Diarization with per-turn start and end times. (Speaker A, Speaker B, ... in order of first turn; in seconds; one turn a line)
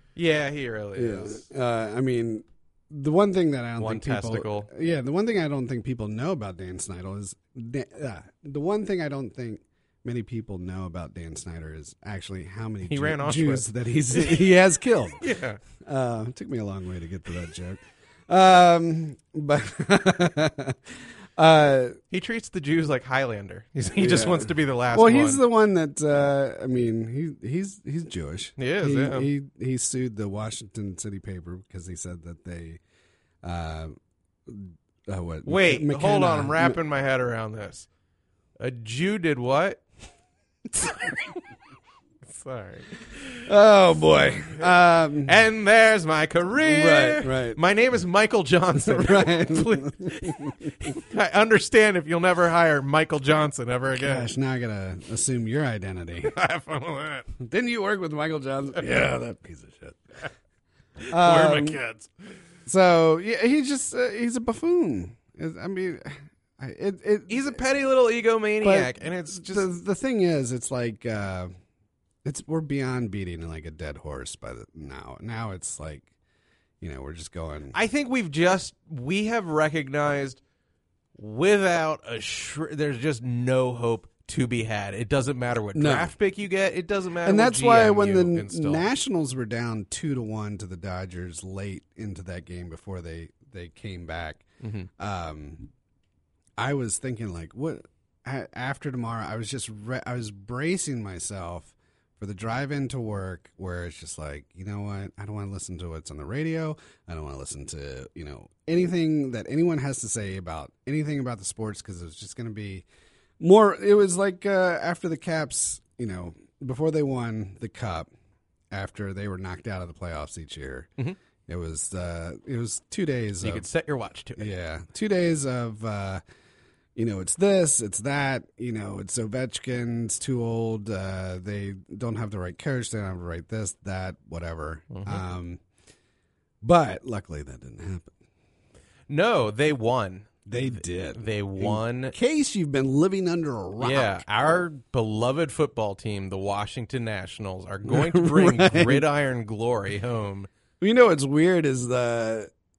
Speaker A: 0.1-1.4
Speaker B: 1.0-15.3
Speaker A: 3.8-4.7
Speaker A: 12.8-14.6
Speaker A: 15.2-15.6
Speaker B: 15.8-22.0
Speaker A: 22.1-25.4
Speaker B: 23.9-32.8
Speaker A: 28.6-29.3
Speaker B: 33.4-34.0
Speaker B: 34.5-36.8
Speaker A: 35.5-37.9
Speaker A: 38.6-39.8
Speaker A: 40.8-41.4
Speaker A: 42.2-43.5
Speaker B: 43.5-45.4
Speaker A: 44.1-44.7
Speaker A: 45.3-54.3
Speaker B: 46.6-47.6
Speaker B: 48.8-50.9
Speaker B: 54.0-56.3
Speaker A: 56.2-57.3
Speaker B: 57.4-60.0
Speaker B: 61.1-61.8
Speaker A: 61.1-62.1
Speaker B: 62.7-67.5
Speaker A: 67.3-69.7
Speaker B: 68.6-71.5
Speaker B: 72.2-76.1
Speaker B: 76.8-77.8
Speaker A: 77.7-80.4
Speaker A: 81.2-88.9
Speaker B: 85.8-86.1
Speaker B: 87.2-94.5
Speaker A: 94.6-94.9
Speaker B: 95.0-95.7
Speaker B: 96.6-112.8
Speaker B: 113.4-118.1
Speaker B: 118.7-120.9
Speaker B: 121.5-123.7
Speaker A: 123.4-124.5
Speaker B: 124.4-126.2
Speaker B: 127.0-135.6
Speaker A: 134.9-135.2
Speaker B: 136.6-138.1
Speaker A: 139.1-142.2
Speaker B: 140.5-144.2
Speaker A: 143.8-150.5
Speaker B: 147.8-149.1
Speaker B: 150.8-152.5